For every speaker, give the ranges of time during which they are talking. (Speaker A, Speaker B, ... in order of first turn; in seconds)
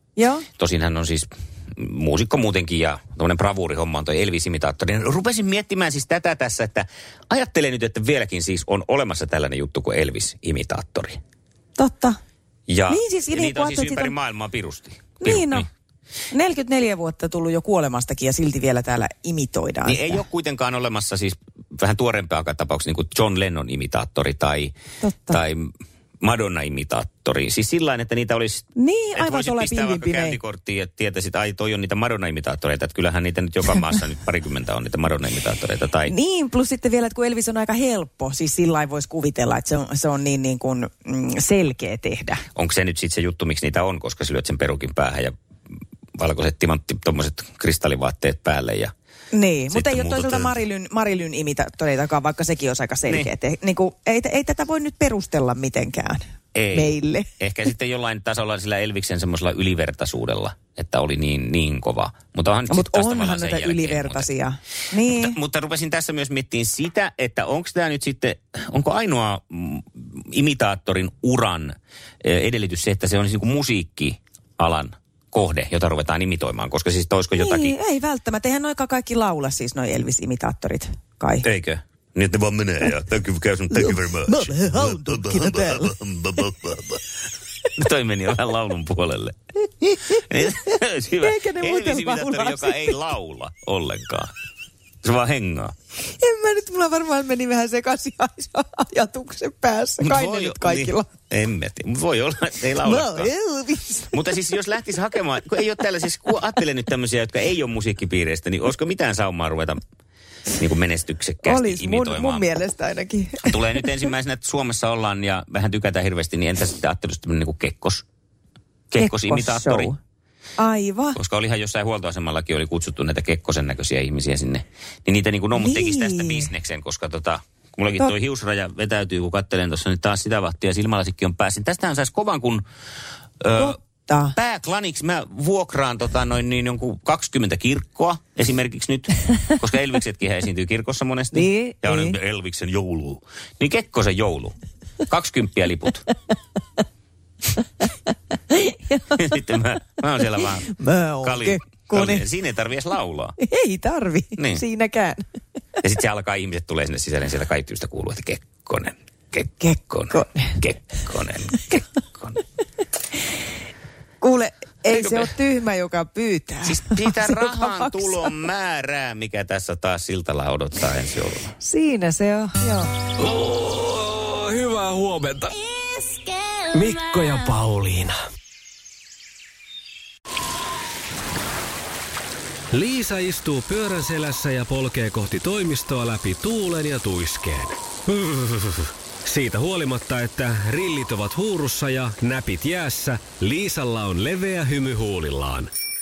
Speaker A: 0.2-0.5, 11.8-12.2, 12.9-14.2, 15.2-15.7, 16.3-20.2, 25.0-25.4, 28.8-30.4, 36.1-42.4, 49.3-57.3, 62.7-65.3, 77.4-81.5, 83.7-86.0, 89.8-90.2, 91.2-93.0, 96.2-101.1, 102.8-104.2, 111.4-113.9, 119.0-120.0, 120.6-121.2, 125.6-126.5, 133.6-134.4, 141.3-142.2, 148.5-149.2, 150.4-152.3, 153.4-155.3, 159.6-160.6, 161.5-161.8, 164.2-168.3, 171.6-172.9
Speaker B: 0.6-11.2, 12.7-15.7, 19.9-24.8, 25.3-36.1, 42.6-45.3, 46.2-48.9, 49.7-50.6, 56.5-64.3, 65.0-71.7, 72.2-77.8, 81.4-87.0, 87.8-89.3, 90.1-94.3, 95.0-95.7, 100.0-103.3, 104.1-109.8, 110.6-112.5, 113.5-118.0, 118.9-119.9, 121.2-132.7, 133.4-133.8, 134.3-144.5, 145.1-146.1, 149.2-153.4, 154.4-154.6, 155.8-162.4, 164.9-165.3, 166.6-171.5
Speaker C: 173.2-175.6, 176.7-178.2, 182.7-195.7